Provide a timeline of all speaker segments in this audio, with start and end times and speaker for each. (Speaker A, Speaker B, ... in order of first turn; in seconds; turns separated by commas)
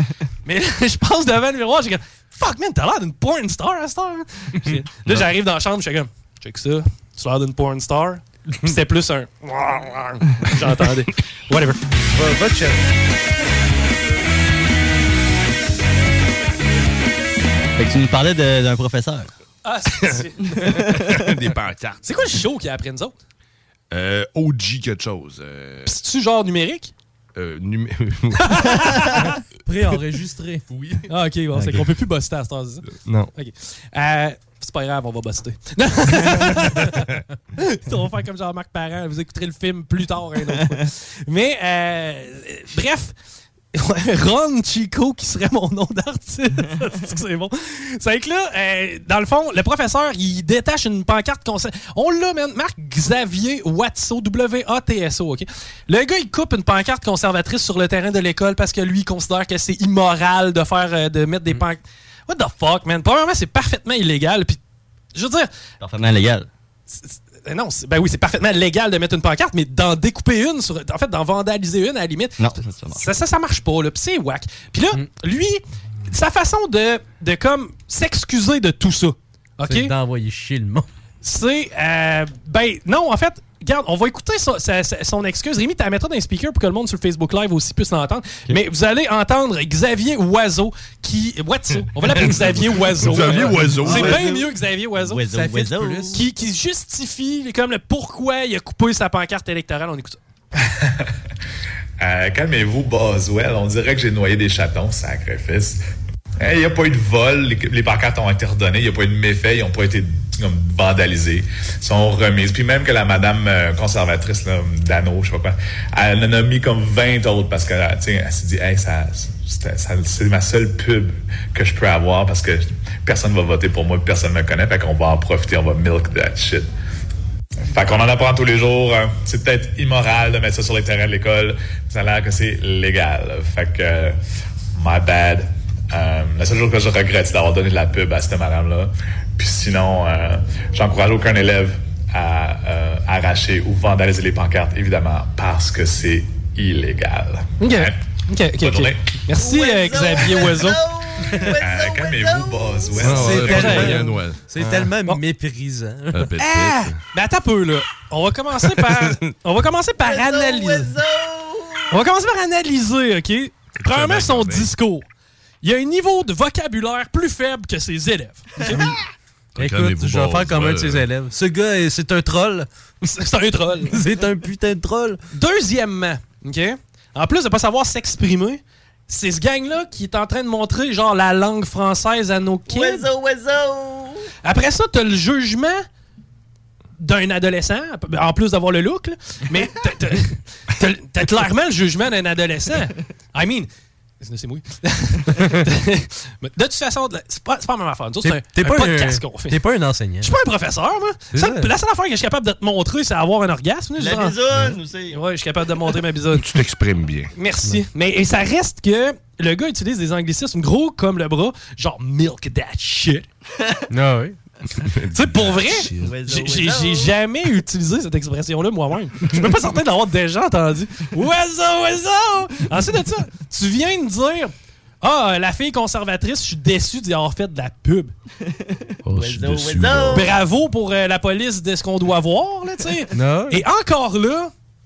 Speaker A: 0.5-11.8, Speaker B: 12.1-12.8, Speaker C: 17.8-19.3, Speaker A: 19.6-20.5, Speaker D: 20.0-22.2, Speaker A: 22.0-23.1, Speaker D: 23.9-25.9, Speaker A: 25.9-26.9, Speaker D: 27.4-28.8, Speaker A: 28.4-29.4, Speaker B: 29.7-30.6, Speaker D: 30.7-31.1, Speaker A: 31.1-37.1, Speaker D: 33.0-33.3, Speaker A: 37.6-43.1, Speaker A: 43.7-64.6, Speaker A: 65.2-65.5, Speaker C: 65.8-66.5, Speaker A: 66.9-79.9, Speaker C: 72.4-73.1, Speaker B: 79.7-80.9, Speaker A: 81.2-95.2, Speaker D: 92.1-94.3, Speaker B: 93.8-94.3, Speaker C: 93.9-94.2, Speaker C: 95.0-96.2, Speaker B: 95.3-96.2, Speaker A: 96.1-100.2, Speaker E: 100.8-101.1, Speaker E: 102.0-105.8, Speaker E: 106.4-126.7, Speaker E: 127.6-134.2, Speaker E: 134.8-147.9, Speaker A: 147.6-150.8, Speaker E: 148.6-149.0, Speaker C: 149.4-153.1, Speaker E: 151.5-153.6, Speaker D: 153.0-154.9, Speaker B: 153.0-156.2, Speaker A: 153.4-154.2, Speaker D: 156.1-157.0, Speaker A: 156.4-160.9, Speaker C: 160.0-162.0, Speaker A: 161.9-165.1, Speaker D: 163.8-164.7, Speaker A: 165.6-169.0, Speaker D: 169.6-171.1, Speaker B: 169.6-172.7, Speaker A: 173.0-173.9, Speaker B: 173.9-175.2, Speaker A: 175.3-183.1, Speaker C: 182.7-184.3, Speaker A: 184.4-185.8, Speaker A: 187.0-193.7, Speaker A: 194.2-199.6, Speaker B: 198.2-200.3, Speaker A: 200.2-204.4, Speaker B: 201.3-201.7, Speaker C: 204.0-205.2, Speaker A: 205.1-206.5, Speaker D: 206.3-207.3, Speaker A: 207.4-213.3, Speaker B: 213.9-214.4, Speaker D: 214.8-216.2, Speaker A: 215.2-228.1, Speaker C: 216.0-217.1, Speaker C: 228.5-230.4, Speaker D: 229.1-230.3, Speaker A: 230.1-234.5, Speaker B: 233.2-233.6